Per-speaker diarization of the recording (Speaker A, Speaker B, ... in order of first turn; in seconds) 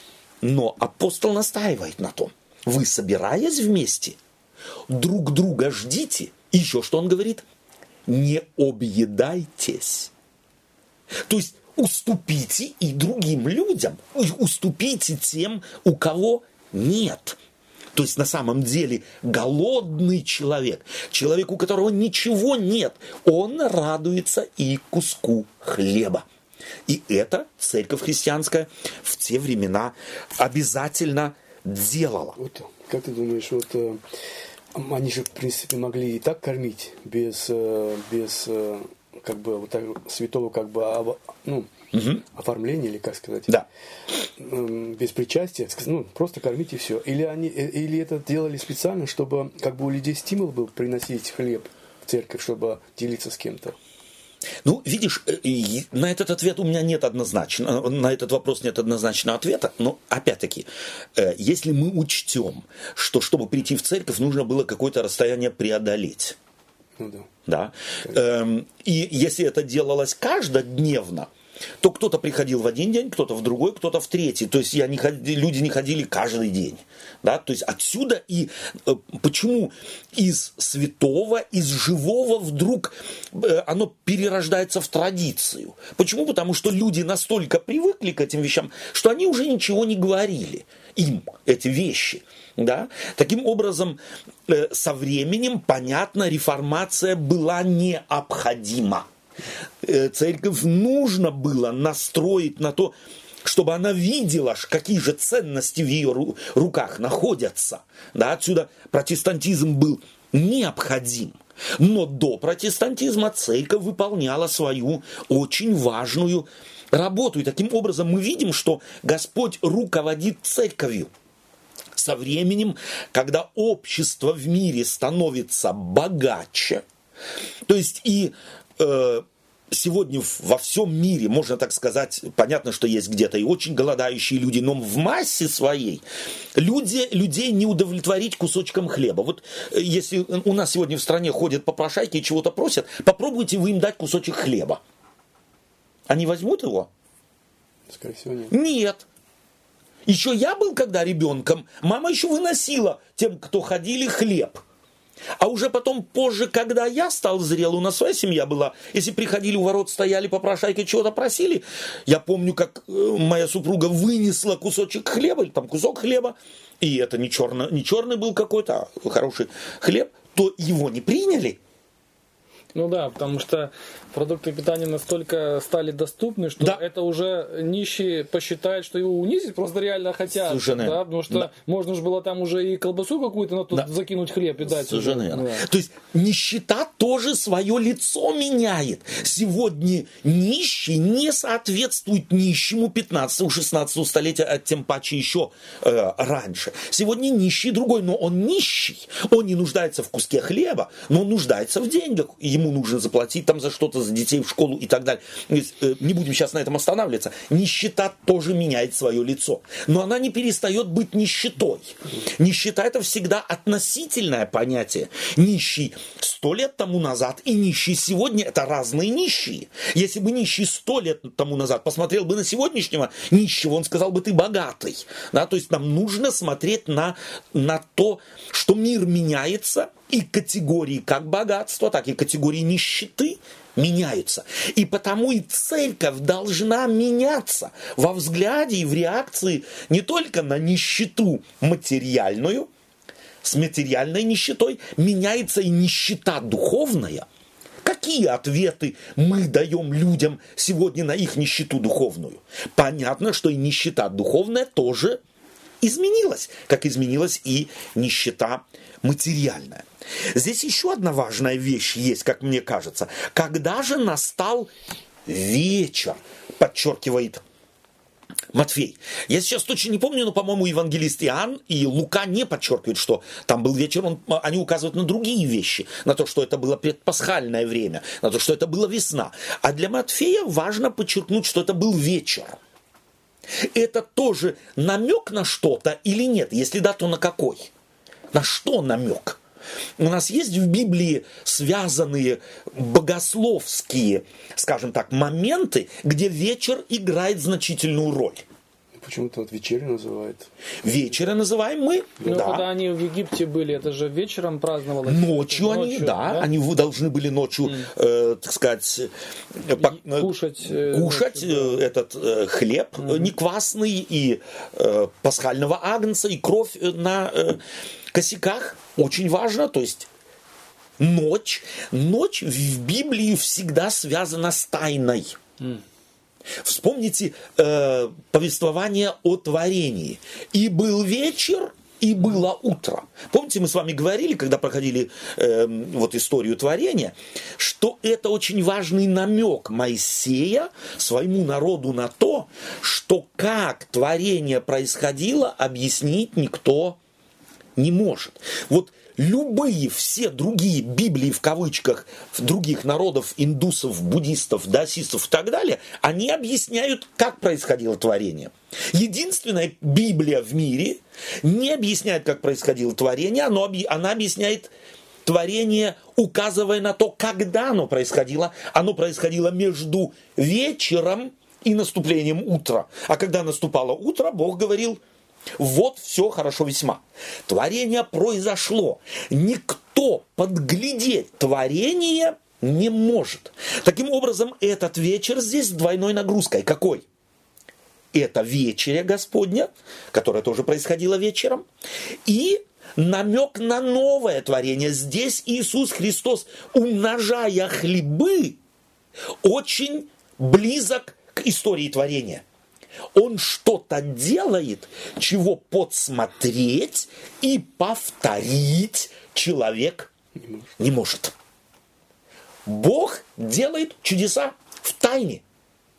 Speaker A: 0.4-4.2, 4.9-7.5, 8.1-10.1, 11.2-17.4, 17.9-26.2, 26.9-32.4, 41.9-42.2, 54.6-66.4, 67.5-71.3, 71.8-99.1, 99.8-121.1, 122.0-126.8, 127.7-136.0, 136.6-144.8, 146.1-146.9, 148.5-149.1, 150.1-154.6, 155.4-171.6, 180.4-181.5, 184.6-242.7, 243.4-247.3, 247.8-255.2, 255.8-264.7, 265.3-267.4, 268.5-282.6, 283.6-287.7, 288.3-289.4, 290.0-298.4, 300.8-302.7, 305.1-317.6, 318.1-320.1, 321.0-325.4, 326.6-347.0, 347.8-364.7, 365.2-375.0, 375.6-387.1, 388.1-391.6, 392.3-398.6, 399.4-402.4, 403.1-410.1, 410.8-411.3, 412.7-415.4
Speaker B: 32.4-34.0, 34.7-41.7, 42.2-43.6, 44.4-53.8, 67.0-67.3, 147.9-148.5, 299.0-300.5, 410.4-410.7
Speaker C: 172.7-185.7, 302.2-306.5, 309.8-311.8, 313.0-313.3